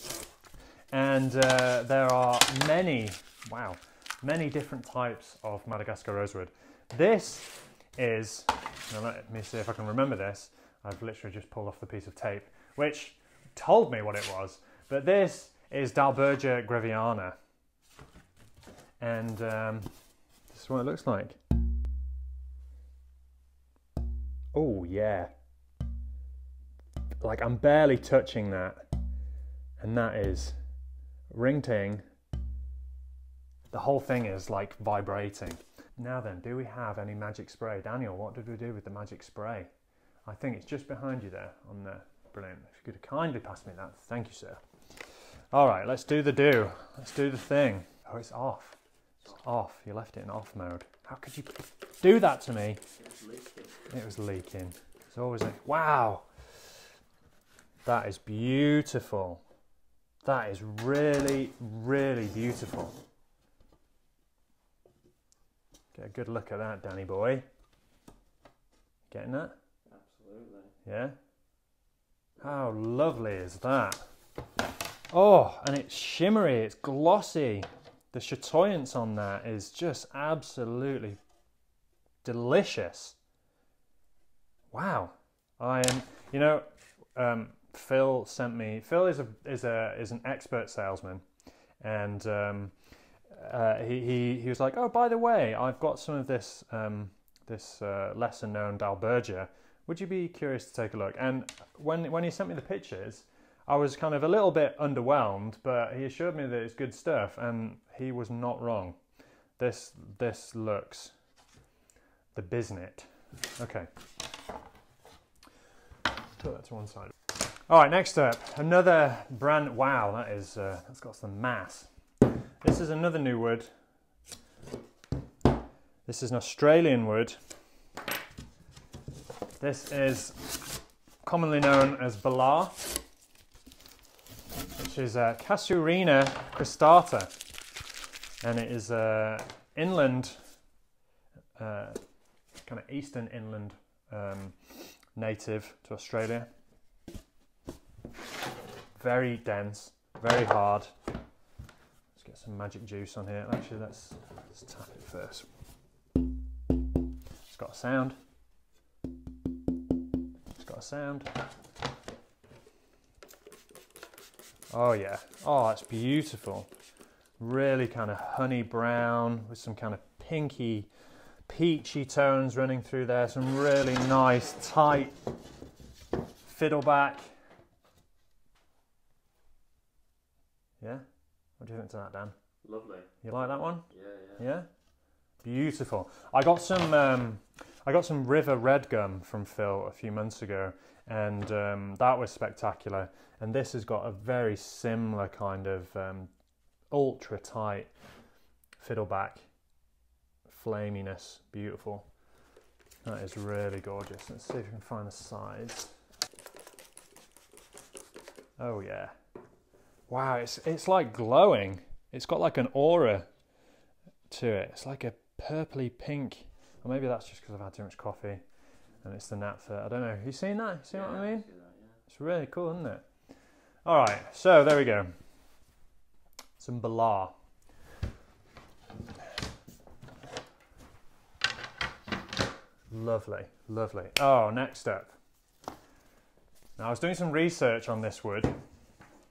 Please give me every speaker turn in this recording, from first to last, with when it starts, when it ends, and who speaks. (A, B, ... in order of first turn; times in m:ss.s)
0:00.9-0:17.4 A
0:19.0-0:19.9 A
0:20.5-0:21.4 A
0:24.5-0:25.3 A
0:27.2-0:28.8 A
0:29.8-0:30.6 A
0:31.3-0:32.0 A
0:33.7-0:39.7 A
0:40.2-0:44.6 A
0:45.5-0:52.8 A
0:52.9-0:53.8 B
0:53.9-0:56.3 A
0:57.8-0:59.4 A
1:00.2-1:03.0 A
1:05.9-1:07.4 A
1:09.1-1:09.5 A
1:09.9-1:10.7 B
1:10.8-1:11.2 A
1:12.4-1:14.0 A
1:15.1-1:21.2 A
1:22.2-1:23.2 A
1:24.7-1:31.2 A
1:31.8-1:32.7 A
1:33.3-1:49.0 A
1:49.6-1:51.1 A
1:52.3-1:53.9 A
1:56.4-1:57.1 A
1:57.7-2:01.9 A
2:02.6-2:03.7 A
2:06.0-2:07.4 A
2:09.6-2:10.6 A
2:11.2-2:13.0 A
2:14.8-2:17.3 A
2:18.4-2:20.4 A
2:21.6-2:22.0 A
2:22.6-2:26.5 A
2:29.0-2:30.9 A
2:32.2-2:35.5 A
2:37.5-2:38.2 A
2:40.6-2:41.3 A
2:44.7-2:46.7 A
2:47.4-2:50.9 A
2:51.5-2:55.1 A
2:56.4-2:57.3 A
3:00.8-3:01.0 A
3:01.6-3:02.3 A
3:02.6-3:04.5 B
3:03.2-3:04.7 A
3:05.4-3:16.3 A
3:16.9-3:17.9 A
3:18.8-3:19.4 A
3:20.5-3:22.0 A
3:23.0-3:25.9 A
3:28.6-3:29.1 A
3:30.1-3:33.3 A
3:34.3-3:38.4 A
3:39.0-3:41.5 A
3:40.9-3:42.0 B
3:42.1-3:43.1 A
3:43.8-3:45.1 A
3:46.6-3:47.3 A
3:52.9-3:55.1 A
3:56.8-3:58.6 A